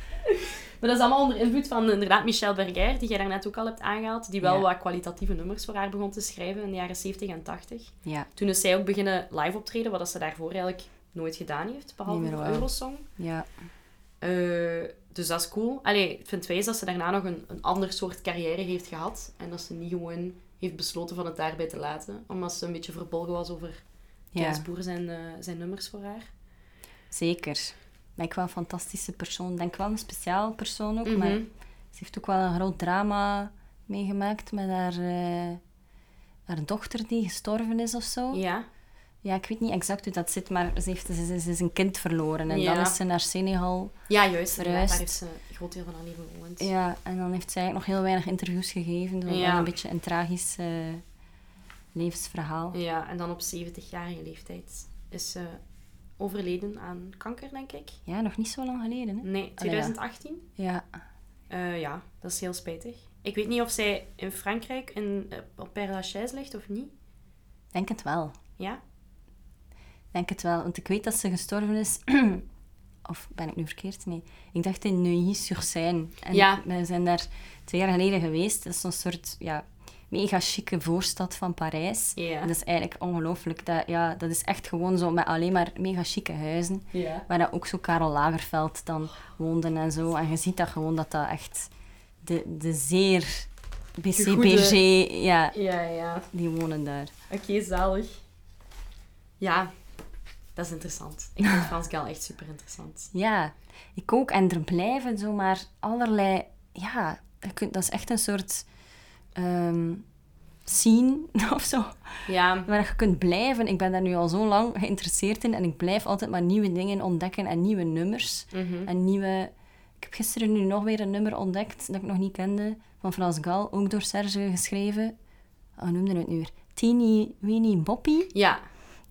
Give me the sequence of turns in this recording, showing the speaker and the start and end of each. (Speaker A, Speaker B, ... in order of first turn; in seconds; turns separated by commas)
Speaker A: 0.2-13.1, Speaker B: 12.1-13.5, Speaker A: 14.2-23.8, Speaker B: 24.3-24.6, Speaker A: 24.4-26.3, Speaker B: 27.1-31.4, Speaker A: 31.0-31.5, Speaker B: 31.9-35.6, Speaker B: 36.5-38.4, Speaker A: 38.3-38.6, Speaker B: 39.2-44.0, Speaker A: 42.5-43.0, Speaker A: 44.1-46.7, Speaker B: 44.5-45.1, Speaker B: 46.6-51.0, Speaker A: 49.2-49.7, Speaker B: 51.9-52.8, Speaker A: 52.7-55.6, Speaker A: 56.2-58.0, Speaker B: 58.1-59.9, Speaker A: 59.2-60.4, Speaker B: 60.6-60.9, Speaker A: 61.5-66.9, Speaker B: 67.7-68.3, Speaker B: 70.1-72.4, Speaker B: 73.0-91.7, Speaker A: 76.3-76.6, Speaker A: 82.2-82.5, Speaker A: 86.9-87.2, Speaker B: 92.2-95.5, Speaker A: 94.1-94.8, Speaker A: 95.5-96.3, Speaker B: 96.3-97.1, Speaker A: 97.3-98.1, Speaker A: 99.4-99.7, Speaker A: 100.5-103.1, Speaker B: 103.1-108.7, Speaker B: 109.3-110.0, Speaker B: 110.7-125.1, Speaker A: 112.3-112.7, Speaker A: 118.5-118.9, Speaker B: 125.8-128.3, Speaker A: 128.3-128.6